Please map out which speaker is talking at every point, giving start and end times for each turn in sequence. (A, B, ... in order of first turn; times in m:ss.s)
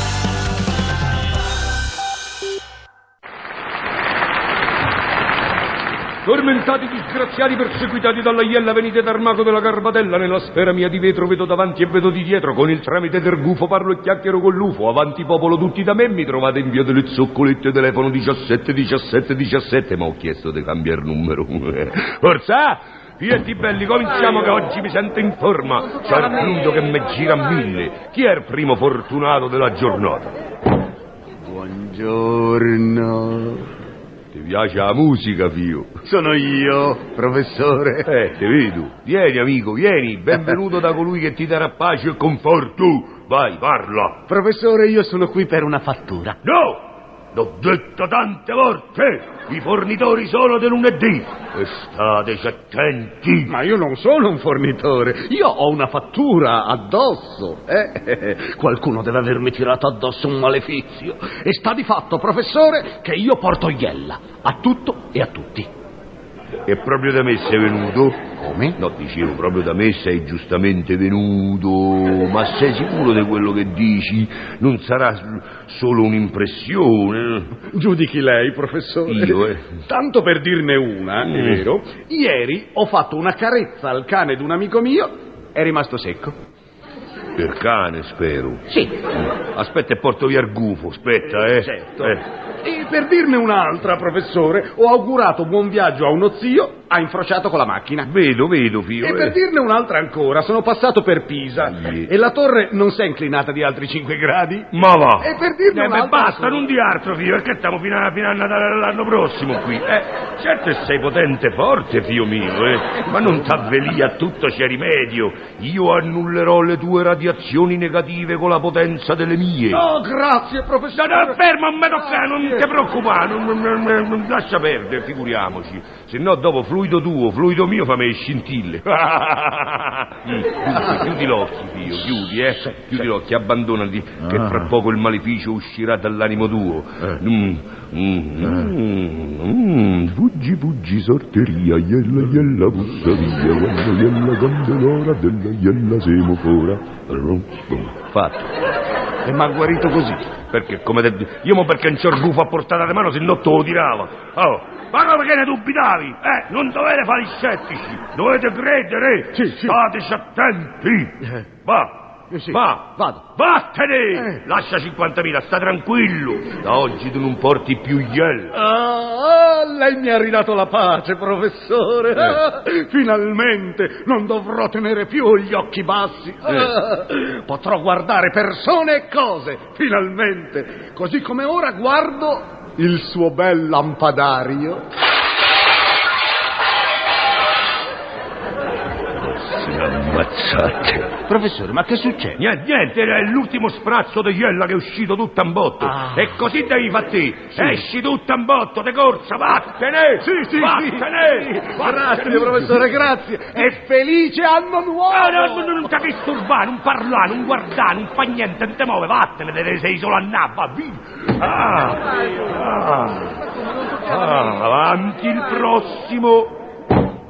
0:06.2-0:30.3 A
0:31.4-0:33.7 B
0:34.3-0:36.0 A
0:36.1-0:38.1 B
0:38.1-0:44.2 A
0:44.3-0:46.4 B
0:46.4-0:53.6 A
0:53.5-1:05.7 B
1:06.7-1:08.2 A
1:08.4-1:08.8 B
1:08.8-1:17.6 A
1:17.6-1:26.4 B
1:19.1-1:19.7 A
1:21.2-1:21.6 A
1:27.4-1:32.2 A
1:31.4-1:38.1 B
1:38.0-1:39.4 A
1:39.0-1:46.6 B
1:41.6-1:42.1 A
1:44.7-1:59.8 A
1:59.7-2:01.4 B
2:00.9-2:28.5 A
2:02.0-2:02.7 B
2:29.2-2:30.3 B
2:30.4-2:48.6 A
2:39.4-2:39.8 B
2:42.3-2:43.2 B
2:48.6-3:04.8 B
3:09.1-3:11.1 A
3:11.3-3:12.4 B
3:12.4-3:23.1 A
3:20.2-3:25.8 B
3:25.1-3:33.4 A
3:34.0-3:36.6 A